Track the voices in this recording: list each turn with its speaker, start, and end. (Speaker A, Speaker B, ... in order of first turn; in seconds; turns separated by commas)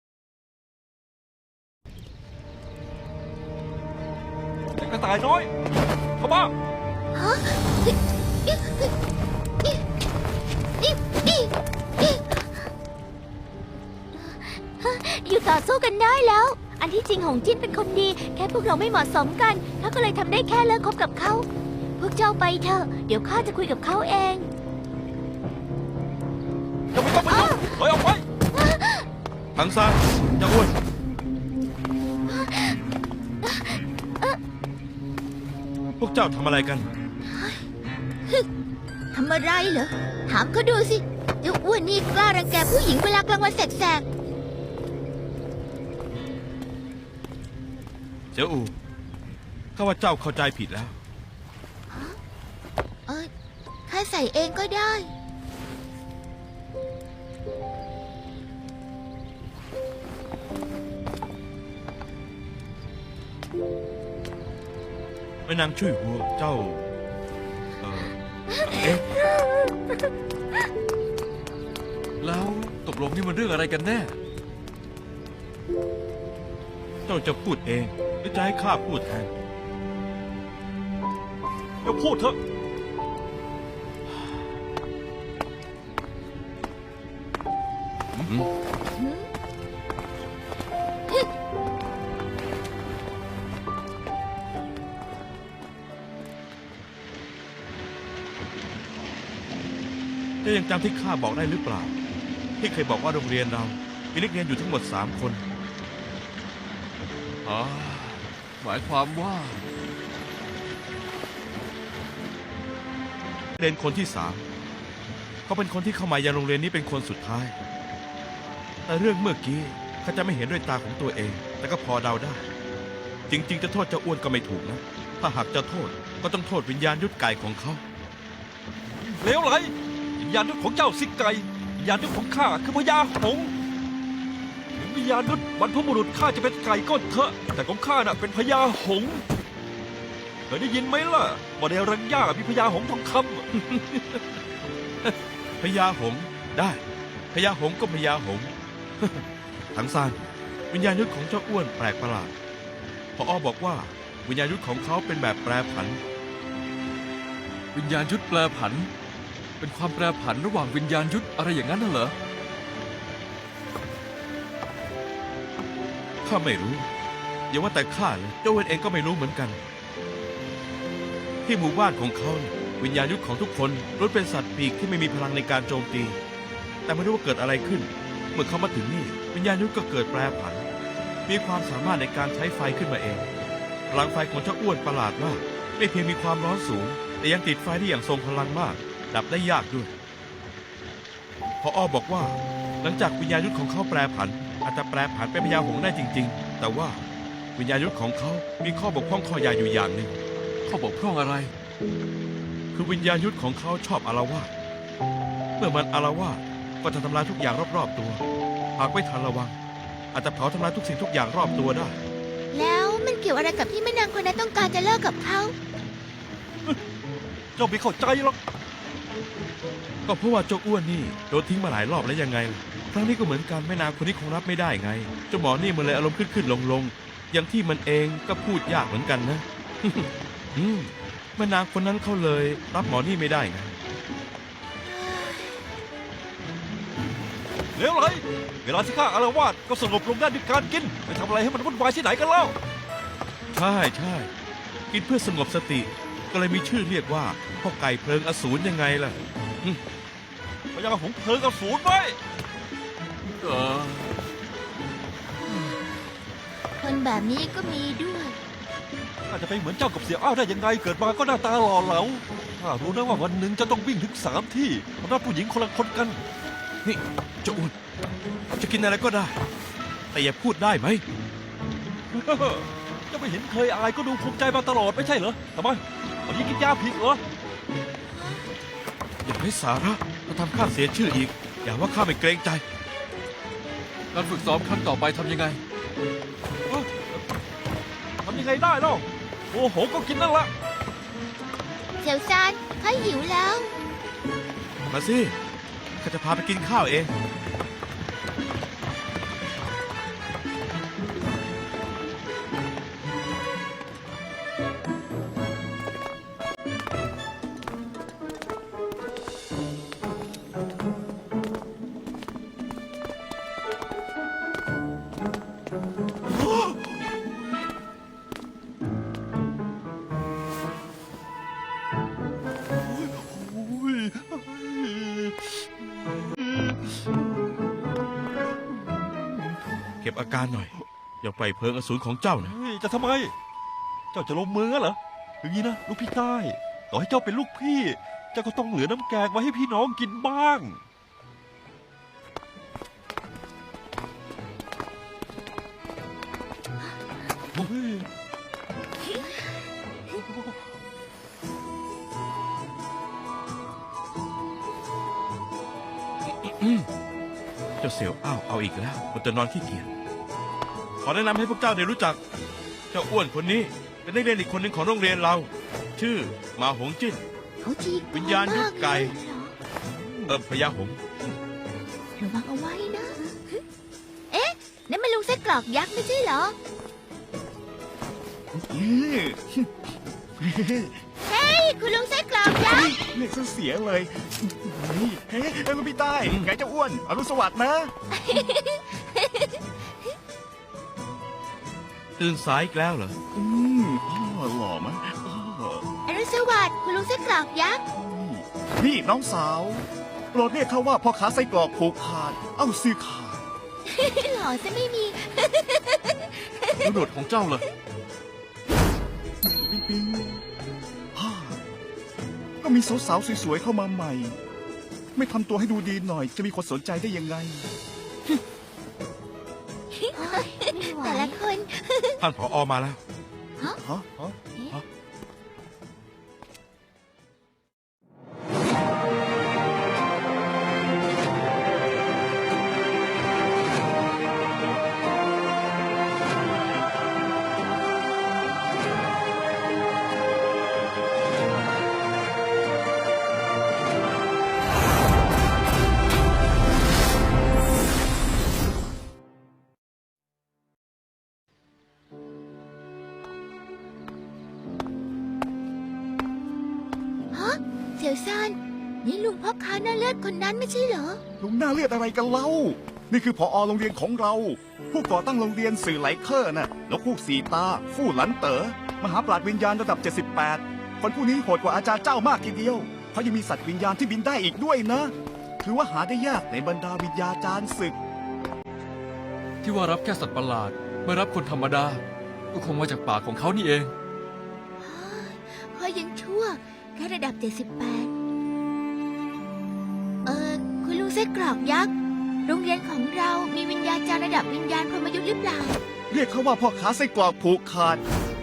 Speaker A: 4.8-5.5, Speaker A: 6.2-6.5, Speaker B: 7.1-8.9, Speaker B: 10.8-12.6, Speaker B: 14.1-21.5, Speaker B: 22.0-24.5, Speaker A: 26.9-28.2, Speaker B: 27.2-27.9, Speaker B: 28.5-29.0, Speaker C: 29.6-30.7, Speaker B: 32.3-32.8, Speaker B: 33.4-34.4, Speaker C: 36.0-36.9, Speaker B: 37.2-37.6, Speaker B: 39.1-44.0, Speaker C: 48.3-48.7, Speaker C: 49.8-51.0, Speaker B: 51.9-52.2, Speaker B: 53.0-53.3, Speaker B: 53.9-55.1, Speaker C: 65.5-66.9, Speaker C: 67.8-69.0, Speaker B: 69.3-69.7, Speaker D: 72.2-74.2, Speaker C: 77.0-79.3, Speaker A: 81.8-82.4, Speaker C: 88.2-88.5, Speaker B: 88.9-89.3, Speaker C: 100.4-102.0, Speaker C: 102.6-105.4, Speaker D: 107.4-109.6, Speaker C: 113.6-114.4, Speaker C: 115.5-117.5, Speaker C: 118.9-122.5, Speaker C: 123.3-127.8, Speaker A: 129.0-133.5, Speaker A: 134.7-139.2, Speaker A: 140.5-143.4, Speaker C: 143.5-144.4, Speaker C: 145.0-146.8, Speaker C: 147.3-150.2, Speaker C: 150.7-152.3, Speaker C: 153.2-156.0, Speaker D: 157.7-158.9, Speaker D: 159.6-162.2, Speaker C: 166.2-166.9, Speaker C: 167.5-169.6, Speaker C: 171.4-176.2, Speaker C: 176.8-180.7, Speaker C: 181.2-183.3, Speaker C: 183.9-189.9, Speaker C: 191.6-197.0, Speaker C: 197.6-200.1, Speaker D: 200.6-201.5, Speaker C: 202.7-204.5, Speaker C: 205.6-208.2, Speaker C: 208.8-209.6, Speaker C: 210.1-211.9, Speaker B: 212.5-215.5, Speaker A: 217.6-218.4, Speaker C: 220.1-233.8, Speaker B: 234.8-235.6, Speaker A: 237.7-242.6, Speaker C: 243.5-244.3, Speaker C: 244.9-249.8, Speaker A: 250.7-252.2, Speaker D: 253.4-254.1, Speaker B: 255.4-255.8, Speaker B: 256.8-258.4, Speaker A: 259.3-266.2, Speaker C: 266.8-267.7, Speaker C: 268.6-269.4, Speaker C: 270.1-271.0, Speaker A: 272.1-277.2, Speaker B: 278.1-278.4, Speaker C: 279.2-282.6, Speaker D: 284.1-285.6, Speaker A: 286.7-287.2, Speaker A: 288.2-290.5, Speaker B: 292.0-293.7, Speaker C: 294.9-295.4, Speaker C: 296.0-297.1, Speaker A: 316.3-317.1, Speaker A: 322.8-325.6, Speaker C: 330.0-332.6, Speaker A: 332.4-333.3, Speaker A: 334.1-340.8, Speaker A: 347.5-348.1, Speaker A: 350.2-350.5, Speaker C: 356.3-356.9, Speaker C: 357.8-359.9, Speaker C: 361.0-362.2, Speaker C: 362.9-367.2, Speaker B: 367.6-369.6, Speaker C: 368.1-369.1, Speaker C: 370.3-371.0, Speaker B: 372.2-373.6, Speaker B: 374.3-376.5, Speaker E: 378.7-379.7, Speaker E: 380.4-381.0, Speaker B: 381.2-382.9, Speaker E: 382.5-387.9, Speaker B: 388.1-389.6, Speaker C: 392.2-393.1, Speaker E: 393.3-395.8, Speaker B: 396.1-397.8, Speaker E: 397.9-403.4, Speaker B: 403.9-406.9, Speaker D: 406.8-407.6, Speaker E: 409.4-410.4, Speaker E: 411.1-411.6, Speaker E: 412.6-414.4, Speaker E: 415.1-417.7, Speaker B: 419.9-422.2, Speaker C: 422.2-423.0, Speaker E: 423.8-424.1, Speaker B: 424.4-424.8, Speaker B: 457.3-461.2, Speaker E: 461.4-478.0, Speaker D: 479.6-483.9, Speaker B: 484.8-488.1, Speaker B: 490.2-491.9, Speaker B: 492.4-495.8, Speaker E: 496.1-498.0